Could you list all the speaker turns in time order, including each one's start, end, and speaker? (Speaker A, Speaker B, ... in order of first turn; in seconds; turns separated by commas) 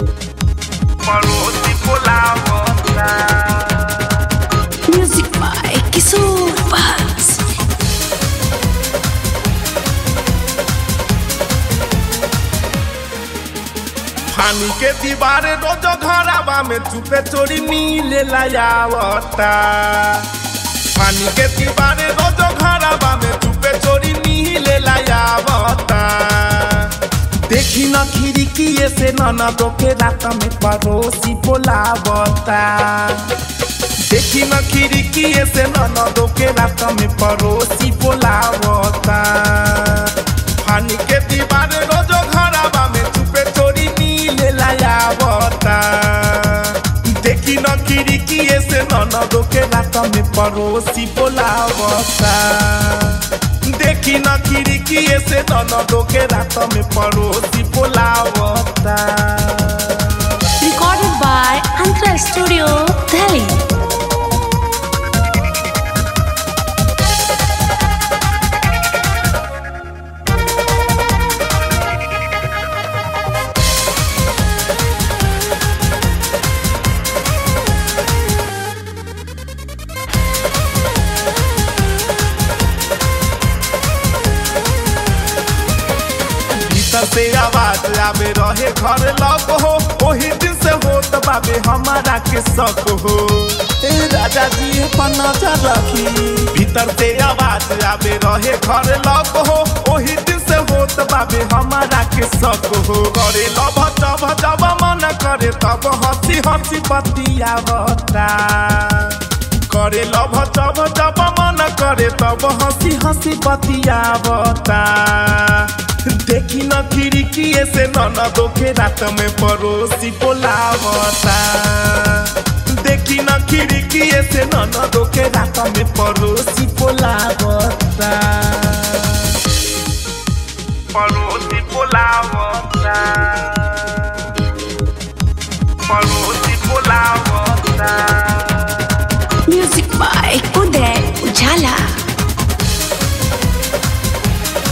Speaker A: 1.0-4.2, Speaker B: 4.9-7.5, Speaker A: 14.3-20.3, Speaker A: 20.9-33.4, Speaker A: 34.0-60.4, Speaker B: 60.6-63.6, Speaker A: 86.6-129.4, Speaker A: 130.9-134.2, Speaker A: 135.8-139.1, Speaker B: 139.5-142.0